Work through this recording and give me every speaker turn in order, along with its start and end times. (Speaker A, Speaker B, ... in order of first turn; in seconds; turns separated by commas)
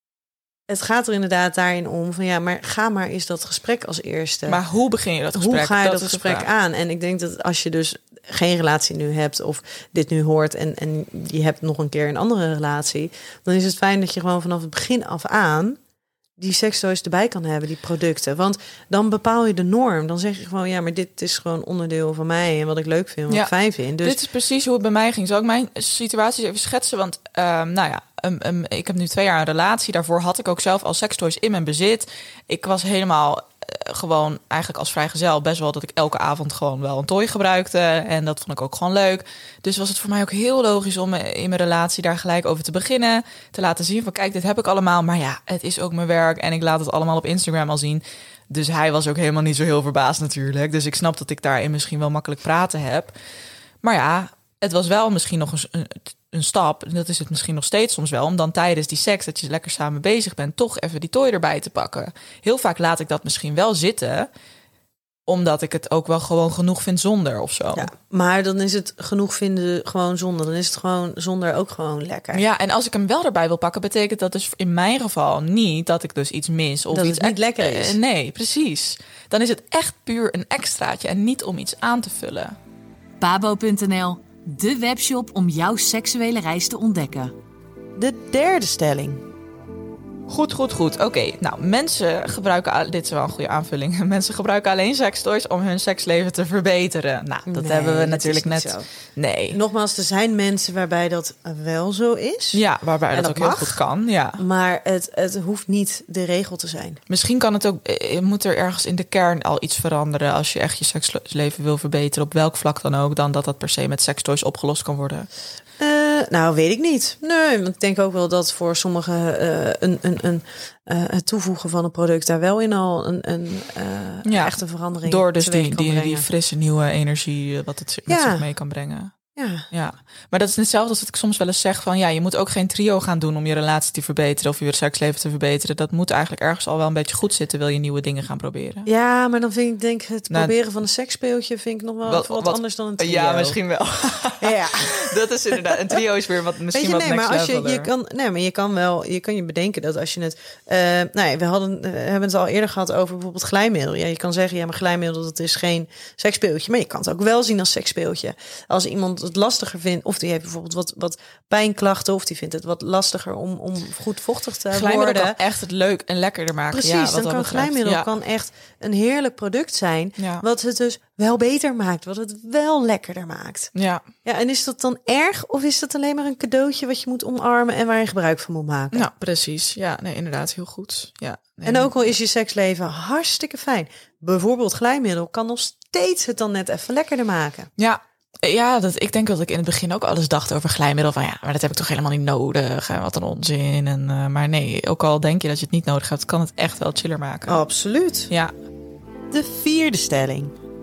Speaker A: 0.7-4.6, Speaker B: 4.5-6.5, Speaker A: 5.3-15.8, Speaker A: 16.4-24.2, Speaker B: 23.3-53.1, Speaker B: 53.8-64.3, Speaker B: 65.3-67.9, Speaker A: 67.7-72.4, Speaker B: 72.3-82.6, Speaker A: 76.9-78.0, Speaker C: 83.2-87.3, Speaker A: 88.0-89.2, Speaker B: 90.3-99.6, Speaker A: 97.5-98.9, Speaker A: 99.5-103.8, Speaker B: 102.5-104.4, Speaker A: 104.4-107.0, Speaker B: 107.1-115.3, Speaker A: 115.8-126.3, Speaker B: 124.2-138.9, Speaker A: 128.1-128.4, Speaker A: 129.3-129.7, Speaker A: 138.8-143.6, Speaker B: 140.3-140.5, Speaker B: 142.0-147.9, Speaker A: 144.4-146.0, Speaker A: 146.7-165.4, Speaker B: 164.7-168.1, Speaker A: 166.7-173.7, Speaker B: 170.2-170.4, Speaker B: 173.7-174.0, Speaker A: 174.2-179.1, Speaker B: 178.9-182.1, Speaker A: 181.6-187.7, Speaker B: 187.8-197.6, Speaker A: 197.5-198.3, Speaker A: 199.3-200.5